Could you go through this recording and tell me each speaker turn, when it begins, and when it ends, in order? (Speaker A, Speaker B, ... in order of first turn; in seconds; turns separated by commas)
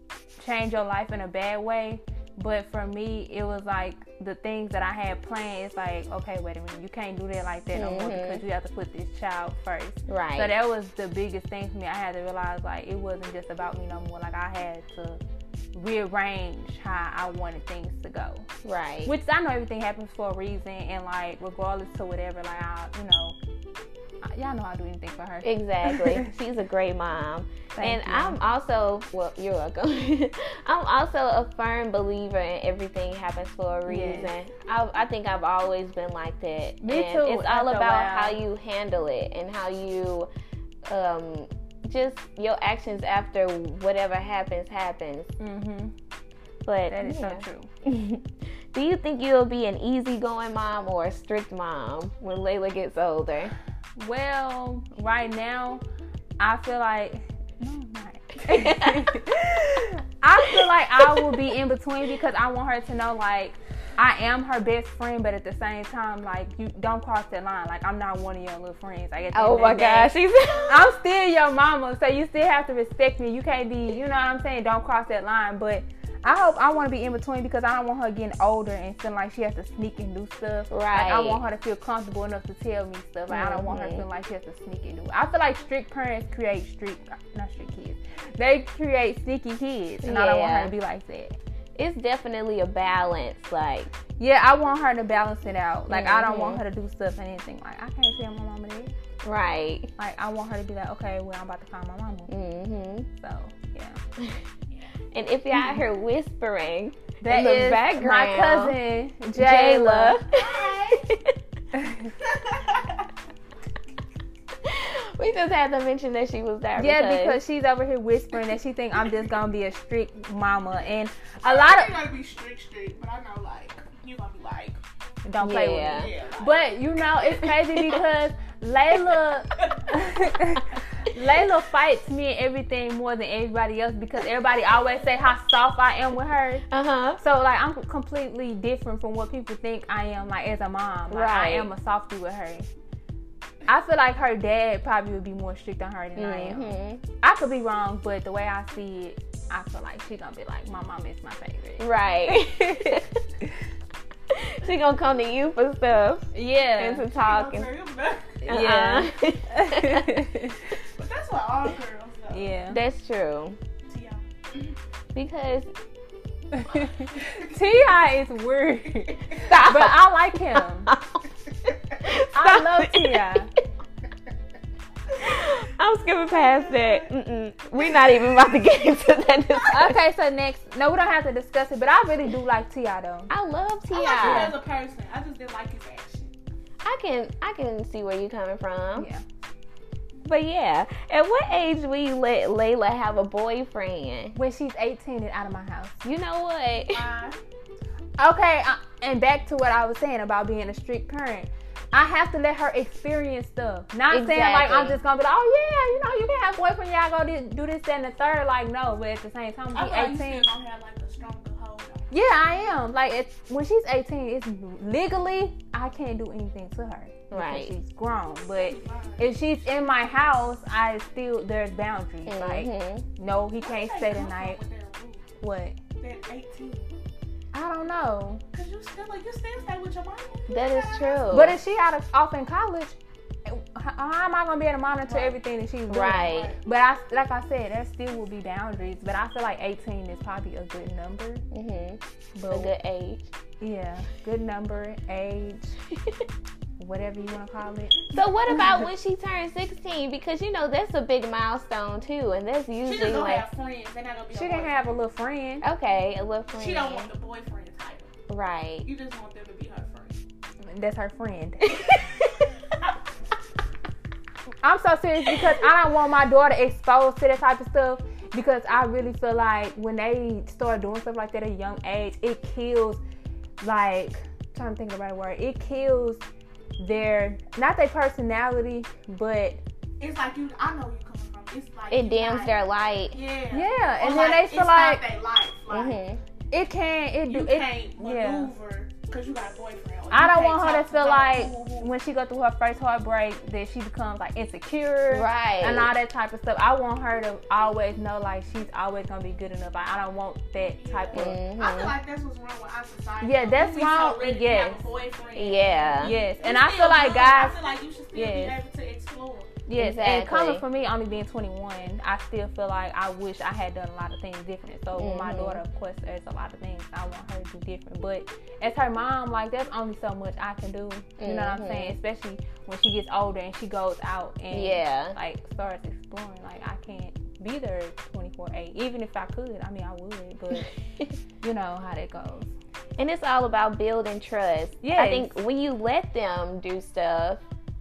Speaker A: 0.4-15.2, Speaker B: 7.7-8.4, Speaker B: 10.1-10.5, Speaker A: 15.7-18.5, Speaker B: 18.6-19.1, Speaker A: 19.0-23.4, Speaker A: 24.2-26.3, Speaker B: 25.4-40.3, Speaker A: 27.8-28.4, Speaker A: 33.9-34.3, Speaker A: 36.8-38.4, Speaker B: 40.9-45.3, Speaker A: 45.4-45.9, Speaker B: 46.6-53.5, Speaker A: 46.9-47.7, Speaker A: 54.0-55.8, Speaker A: 56.4-70.1, Speaker B: 58.5-59.1, Speaker B: 60.5-61.4, Speaker B: 69.3-70.9, Speaker A: 70.7-91.4, Speaker B: 80.7-81.4, Speaker B: 83.3-84.0, Speaker B: 90.0-90.7, Speaker B: 91.8-93.9, Speaker A: 94.2-98.9, Speaker B: 95.9-96.6, Speaker B: 99.2-99.9, Speaker A: 100.0-102.3, Speaker B: 102.3-103.1, Speaker A: 103.2-104.0, Speaker B: 105.1-108.8, Speaker A: 105.5-105.8, Speaker A: 107.2-110.2, Speaker B: 109.3-111.3, Speaker C: 110.3-111.0, Speaker A: 111.7-112.1, Speaker C: 112.2-113.1, Speaker B: 114.6-117.4, Speaker A: 116.8-122.0, Speaker C: 121.4-124.8, Speaker A: 125.2-136.6, Speaker B: 125.4-126.1, Speaker C: 125.9-126.7, Speaker B: 127.3-128.0, Speaker B: 136.7-137.2, Speaker A: 137.2-142.7, Speaker B: 141.1-141.7, Speaker A: 143.7-153.0, Speaker B: 146.2-147.0, Speaker B: 151.8-153.1, Speaker B: 154.3-157.7, Speaker A: 156.3-157.1, Speaker C: 157.1-158.4, Speaker A: 158.4-160.8, Speaker B: 158.4-160.2, Speaker C: 160.9-162.6, Speaker A: 162.3-162.8, Speaker B: 162.7-163.6, Speaker C: 163.9-164.7, Speaker B: 165.1-165.7, Speaker A: 166.5-170.9, Speaker B: 169.5-171.2, Speaker B: 172.0-173.4, Speaker A: 172.3-173.5, Speaker B: 175.2-179.9, Speaker C: 176.3-177.1, Speaker C: 177.8-178.1, Speaker A: 179.7-183.3, Speaker B: 183.3-184.6, Speaker C: 183.9-186.3, Speaker A: 184.2-184.5, Speaker B: 186.8-189.1, Speaker A: 189.0-189.2, Speaker B: 190.2-194.3, Speaker A: 194.3-196.0, Speaker B: 196.0-197.1, Speaker C: 196.9-197.4, Speaker A: 198.2-210.5, Speaker B: 204.1-205.0, Speaker C: 209.7-212.1, Speaker A: 212.1-224.6, Speaker B: 217.3-217.7, Speaker C: 218.5-219.3, Speaker B: 222.2-223.1, Speaker C: 223.6-225.3, Speaker A: 225.4-225.8, Speaker C: 226.0-227.0, Speaker A: 227.5-228.4, Speaker C: 228.5-231.3, Speaker B: 230.5-231.6, Speaker A: 231.3-241.4, Speaker C: 235.1-235.4, Speaker B: 235.9-236.5, Speaker C: 236.2-236.6, Speaker B: 241.5-243.3, Speaker A: 242.3-242.7, Speaker A: 243.6-245.8, Speaker B: 245.9-246.2, Speaker A: 246.8-248.8, Speaker B: 248.1-253.5, Speaker C: 252.8-254.9, Speaker A: 254.3-255.6, Speaker B: 255.6-257.1, Speaker C: 256.5-258.1, Speaker B: 258.3-258.9, Speaker C: 258.8-260.2, Speaker A: 260.6-262.1, Speaker A: 264.6-273.0, Speaker A: 273.6-276.2, Speaker A: 276.8-279.6, Speaker C: 280.0-282.6, Speaker B: 281.9-283.2, Speaker C: 283.1-286.0, Speaker A: 283.5-285.0, Speaker B: 285.7-286.2, Speaker A: 286.5-288.5, Speaker C: 287.3-291.9, Speaker A: 290.1-301.4, Speaker B: 295.1-295.9, Speaker C: 300.6-309.6, Speaker B: 301.1-301.9, Speaker A: 303.2-304.9, Speaker B: 305.4-306.1, Speaker A: 306.0-307.6, Speaker A: 308.1-308.6, Speaker A: 309.6-330.7, Speaker B: 309.8-310.6, Speaker B: 314.9-315.6, Speaker B: 321.2-321.9, Speaker B: 324.5-325.1, Speaker B: 330.6-331.1, Speaker A: 331.4-332.5, Speaker B: 333.0-337.4, Speaker A: 334.8-335.3